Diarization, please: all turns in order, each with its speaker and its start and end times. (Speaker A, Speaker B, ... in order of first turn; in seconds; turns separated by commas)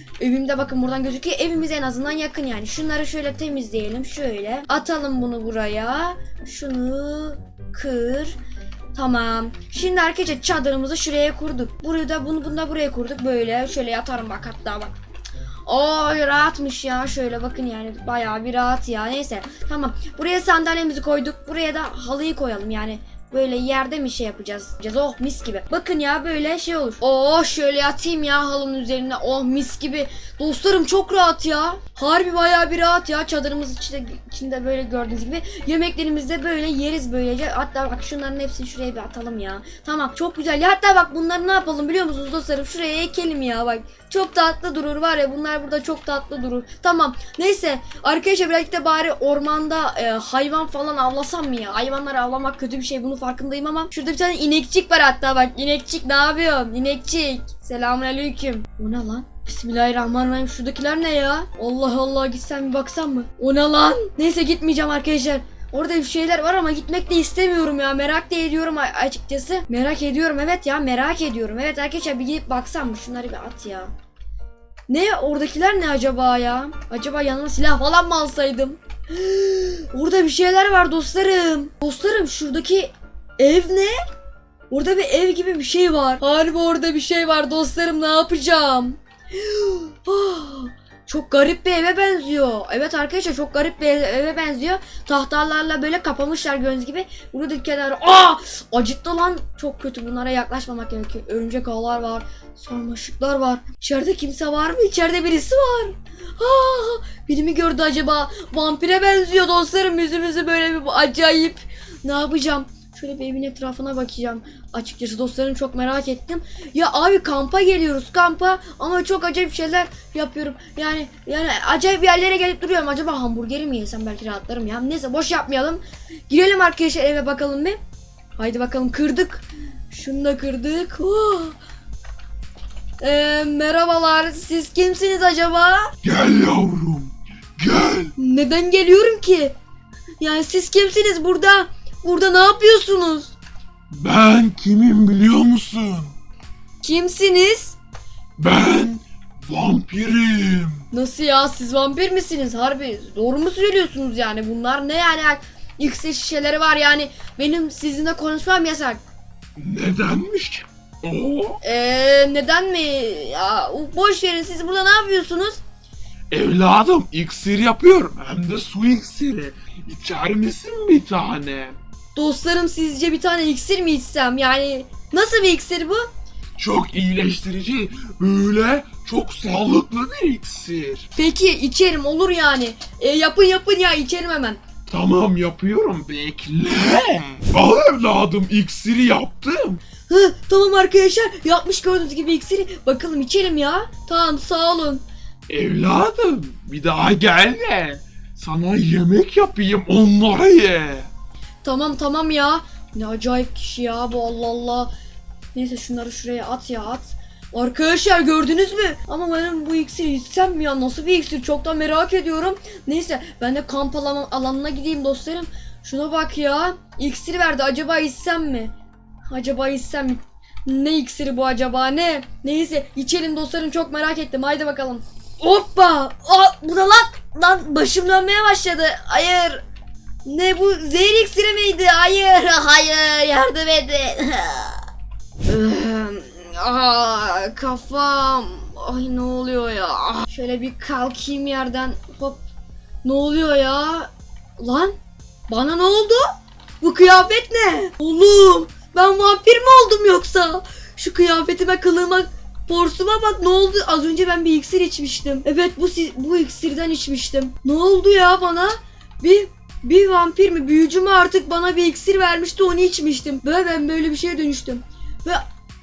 Speaker A: 0.2-8.4, Speaker A: 8.9-14.9, Speaker A: 15.7-73.9, Speaker A: 74.9-84.0, Speaker A: 84.7-127.8, Speaker A: 128.4-131.6, Speaker A: 133.0-135.9, Speaker B: 136.0-138.1, Speaker A: 138.2-139.5, Speaker A: 140.2-143.3, Speaker B: 143.9-146.2, Speaker A: 146.8-147.8, Speaker B: 148.4-150.9, Speaker A: 150.9-159.0, Speaker B: 159.6-161.6, Speaker A: 161.6-165.6, Speaker B: 166.3-171.8, Speaker A: 172.1-176.1, Speaker B: 176.6-181.1, Speaker A: 181.1-184.6, Speaker B: 184.9-189.8, Speaker A: 190.1-195.0, Speaker B: 195.5-201.1, Speaker A: 201.6-204.9, Speaker A: 205.5-218.7, Speaker A: 219.3-229.6, Speaker A: 230.2-234.9, Speaker A: 235.4-242.4, Speaker A: 243.0-244.9, Speaker A: 245.5-265.4